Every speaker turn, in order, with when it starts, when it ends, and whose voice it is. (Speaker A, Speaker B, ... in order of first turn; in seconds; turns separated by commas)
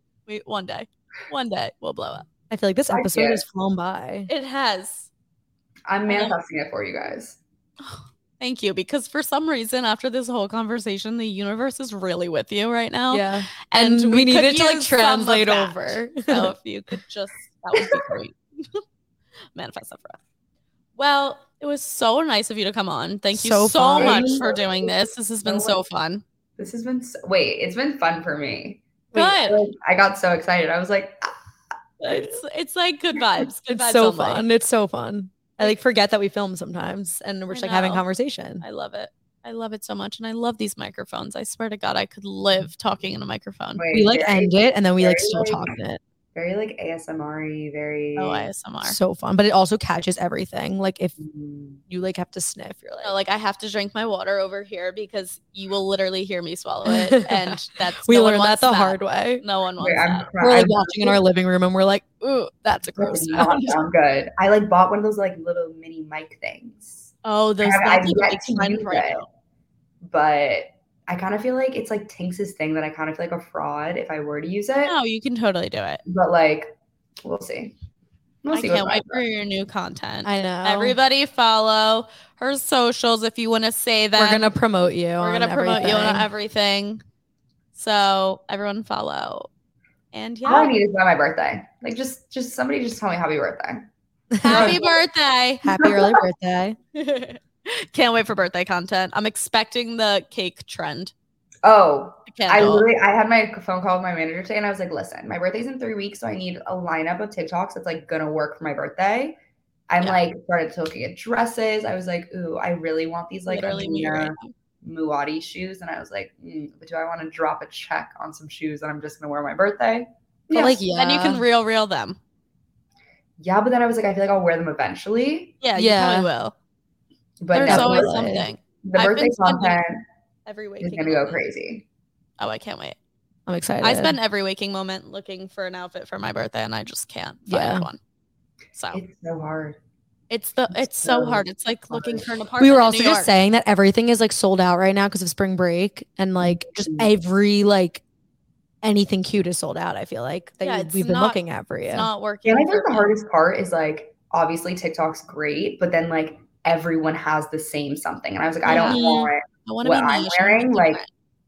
Speaker A: 0.3-2.3, Speaker B: 2.5-4.3, Speaker C: 2.9-3.4, Speaker A: 4.3-5.1, Speaker C: 5.9-7.4, Speaker A: 6.1-6.4, Speaker A: 7.8-18.8, Speaker B: 13.1-16.5, Speaker A: 19.6-20.2, Speaker A: 21.0-26.2, Speaker B: 23.3-24.4, Speaker C: 24.0-25.8, Speaker C: 26.6-31.3, Speaker A: 29.1-29.6, Speaker A: 32.0-34.5, Speaker B: 33.7-38.6, Speaker A: 37.5-38.0, Speaker A: 38.6-43.8, Speaker C: 43.8-45.7, Speaker B: 43.9-46.0, Speaker C: 46.4-48.5, Speaker A: 48.2-49.0, Speaker B: 48.8-51.2, Speaker C: 51.2-51.8, Speaker B: 51.9-53.1, Speaker A: 53.0-60.3, Speaker B: 56.9-59.4, Speaker C: 59.8-61.2, Speaker B: 60.4-63.8, Speaker C: 63.0-69.2, Speaker A: 67.2-69.3, Speaker C: 70.0-75.0, Speaker A: 74.8-76.0, Speaker C: 76.0-76.7, Speaker C: 77.2-77.7, Speaker C: 78.4-79.2, Speaker A: 78.5-84.5, Speaker B: 80.2-81.0, Speaker B: 84.2-86.3, Speaker A: 85.2-87.0, Speaker A: 87.8-89.5, Speaker A: 90.1-90.8, Speaker C: 90.5-93.9, Speaker B: 94.3-94.8, Speaker A: 94.4-95.7, Speaker C: 94.5-94.9, Speaker B: 95.6-96.8, Speaker C: 95.8-96.2, Speaker A: 97.0-101.1, Speaker C: 101.6-109.4, Speaker A: 102.3-102.9, Speaker C: 109.9-120.8, Speaker A: 113.5-114.5, Speaker B: 120.5-121.4, Speaker A: 120.9-122.2, Speaker C: 123.4-125.6, Speaker A: 125.6-126.5, Speaker B: 125.8-126.3, Speaker C: 127.4-128.1, Speaker B: 127.5-128.5, Speaker A: 127.6-129.8, Speaker C: 128.8-130.0, Speaker A: 130.5-131.4, Speaker C: 130.8-131.8, Speaker A: 132.4-133.0, Speaker B: 133.5-134.2, Speaker A: 133.8-138.0, Speaker B: 137.5-137.9, Speaker A: 138.8-139.0, Speaker C: 138.9-139.8, Speaker A: 140.3-143.3, Speaker C: 140.7-142.3, Speaker B: 142.6-148.0, Speaker C: 146.4-147.1, Speaker B: 148.8-152.1, Speaker A: 150.6-153.1, Speaker C: 152.5-161.0, Speaker A: 158.7-159.0, Speaker B: 158.7-159.3, Speaker A: 159.7-161.1